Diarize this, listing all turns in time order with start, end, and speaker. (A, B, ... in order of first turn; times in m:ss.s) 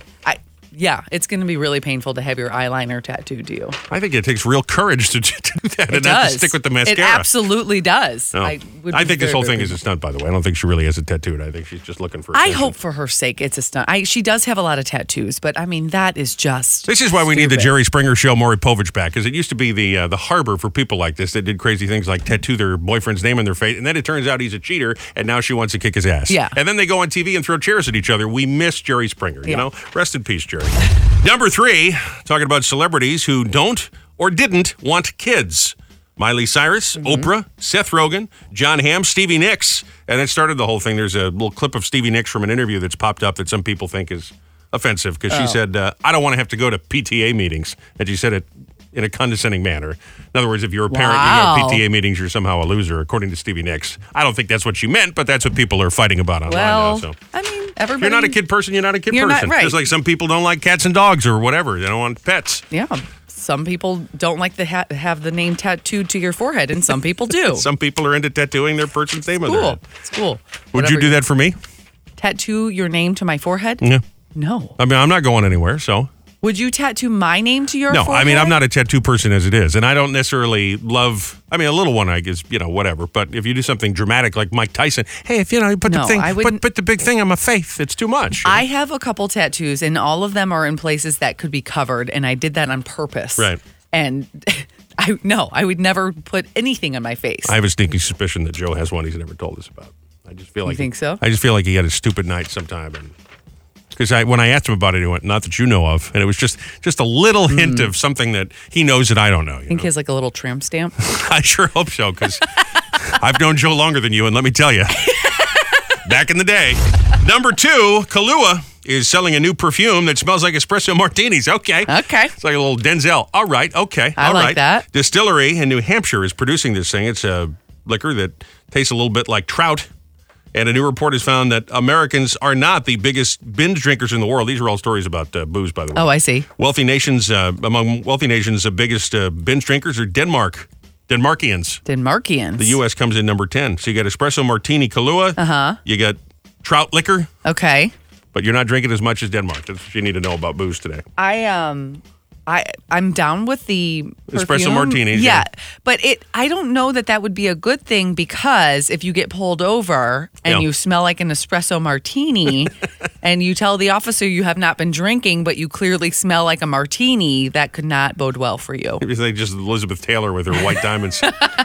0:00.2-0:03.8 A
0:03.9-0:07.3 B
0:05.9-0:09.8 A
0:08.3-0:12.7 B
0:12.3-0:17.7 A
0:16.9-0:57.1 B
0:26.3-0:26.5 A
0:37.0-0:37.3 A
0:45.3-0:45.6 A
0:50.9-0:51.8 A
0:56.5-0:58.4 A
0:58.0-1:02.6 B
0:59.1-0:59.8 A
1:02.7-1:07.6 A
1:07.5-1:09.8 B
1:09.4-1:11.2 A
1:10.7-1:11.6 B
1:12.2-1:14.7 A
1:14.8-1:16.1 B
1:16.4-1:18.6 A
1:17.9-1:28.6 B
1:25.8-1:26.6 A
1:28.4-1:37.6 A
1:37.4-1:43.1 B
1:40.6-1:41.2 A
1:43.9-1:49.9 B
1:47.5-1:47.9 A
1:49.7-1:51.0 A
1:51.0-1:52.4 B
1:53.0-1:55.0 B
1:55.1-1:55.6 A
1:56.0-2:09.9 B
2:01.9-2:02.3 A
2:04.2-2:04.9 A
2:10.5-2:21.8 B
2:16.0-2:16.5 A
2:21.8-2:22.8 A
2:22.6-2:27.3 B
2:25.4-2:25.8 A
2:27.4-2:27.9 A
2:28.3-2:31.0 B
2:31.2-2:49.0 A
2:34.3-2:35.4 B
2:49.0-2:51.3 B